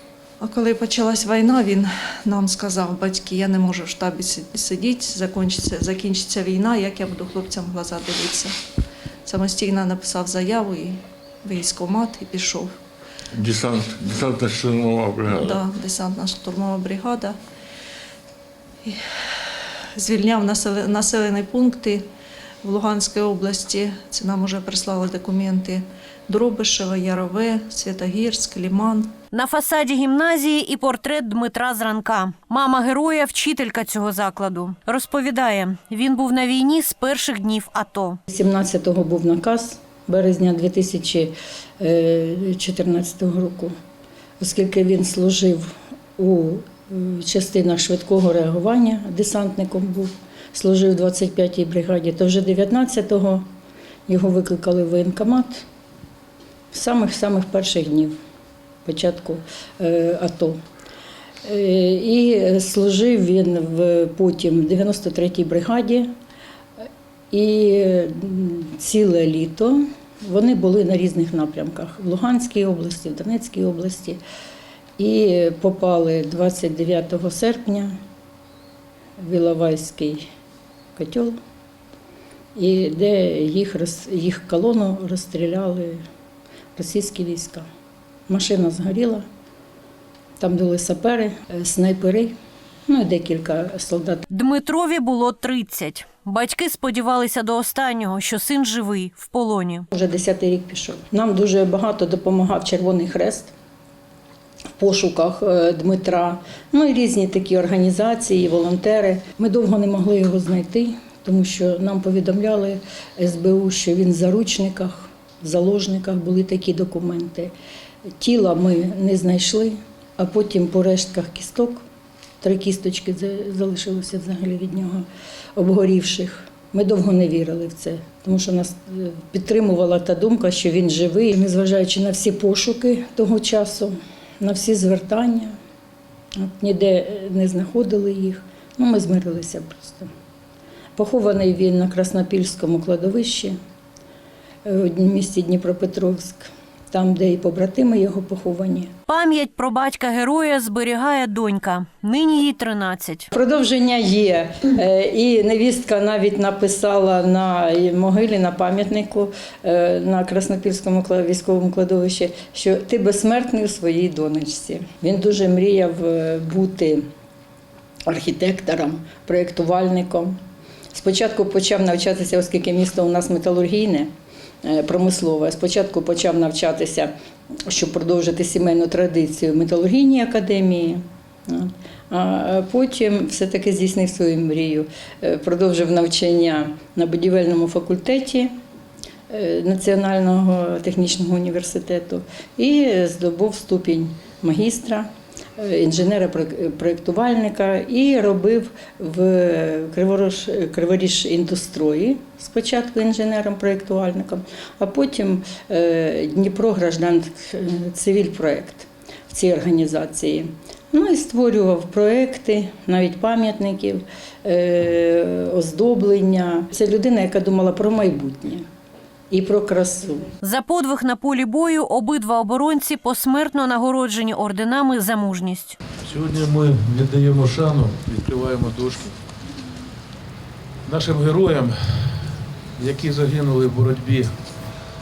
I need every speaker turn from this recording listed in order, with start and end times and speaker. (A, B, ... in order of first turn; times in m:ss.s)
0:00.4-0:08.6 A
0:09.2-0:12.7 A
0:13.3-0:15.6 B
0:15.3-0:17.4 A
0:18.8-0:22.0 A
0:22.6-0:29.1 A
0:29.3-0:38.2 C
0:38.3-0:43.8 D
0:44.4-0:53.5 D
0:54.1-0:55.6 D
0:56.7-0:58.2 D
0:58.8-1:00.6 D
1:01.4-1:06.1 D
1:07.3-1:14.2 D
1:15.0-1:18.0 D
1:19.2-1:20.3 D
1:21.0-1:21.4 D
1:22.6-1:26.0 D
1:26.8-1:27.7 D
1:28.3-1:29.2 D
1:30.4-1:32.4 D
1:32.9-1:34.2 D
1:34.3-1:39.9 C
1:39.9-1:43.5 D
1:44.8-1:57.5 D
1:58.2-2:01.8 D
2:02.4-2:15.6 D
2:16.4-2:20.1 D
2:21.0-2:23.6 D
2:24.6-2:28.9 D
2:29.1-2:33.3 C
2:33.3-2:47.1 D
2:48.1-2:50.4 D
2:50.9-2:54.1 D
2:54.6-2:57.1 D
2:57.6-3:08.5 D
3:09.3-3:38.7 D
3:39.3-3:40.3 D
3:40.4-3:45.8 C
3:46.0-3:49.3 E
3:50.8-3:54.6 E